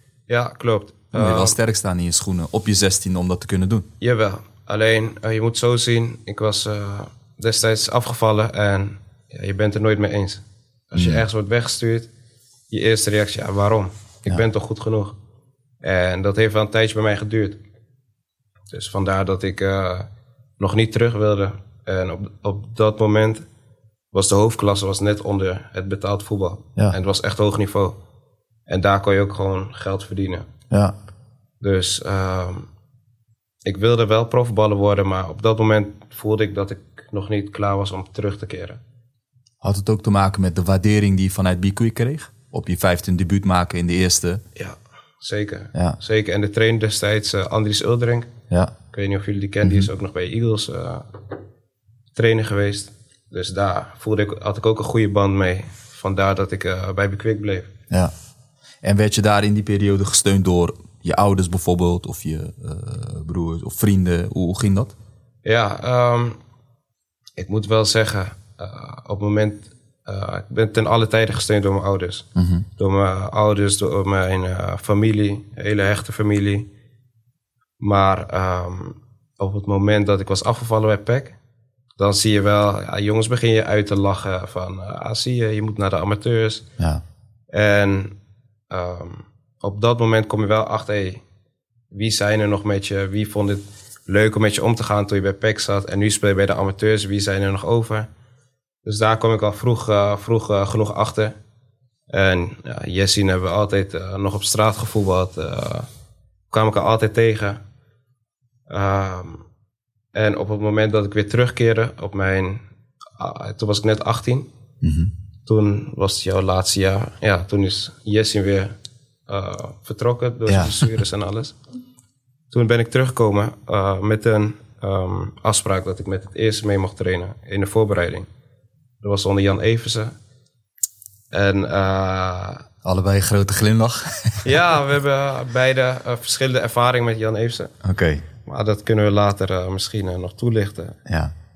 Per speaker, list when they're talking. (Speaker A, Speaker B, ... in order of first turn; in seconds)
Speaker A: 0.3-1.6, 4.0-12.1, 12.7-15.2, 15.8-17.6, 18.7-23.4, 24.1-28.0, 28.7-30.5, 31.6-32.7, 33.6-38.8, 44.6-48.3, 48.9-51.2, 52.2-57.7, 65.5-66.4, 67.4-72.3, 72.8-76.7, 77.8-81.4, 82.0-86.7, 87.5-88.2, 88.7-91.2, 91.9-98.1, 98.8-101.3, 102.1-105.9, 106.5-107.6, 108.7-109.4, 110.1-112.6, 113.2-114.5, 115.5-118.7, 119.3-121.6, 122.5-128.3, 129.0-130.1, 131.3-132.7, 134.4-137.8, 138.5-141.0
Speaker B: 1.1-3.9, 10.9-11.2, 39.6-44.4, 49.6-49.9, 58.8-64.9, 72.4-72.7, 114.8-115.1, 120.5-120.8, 132.8-134.5, 137.8-138.2, 141.1-141.3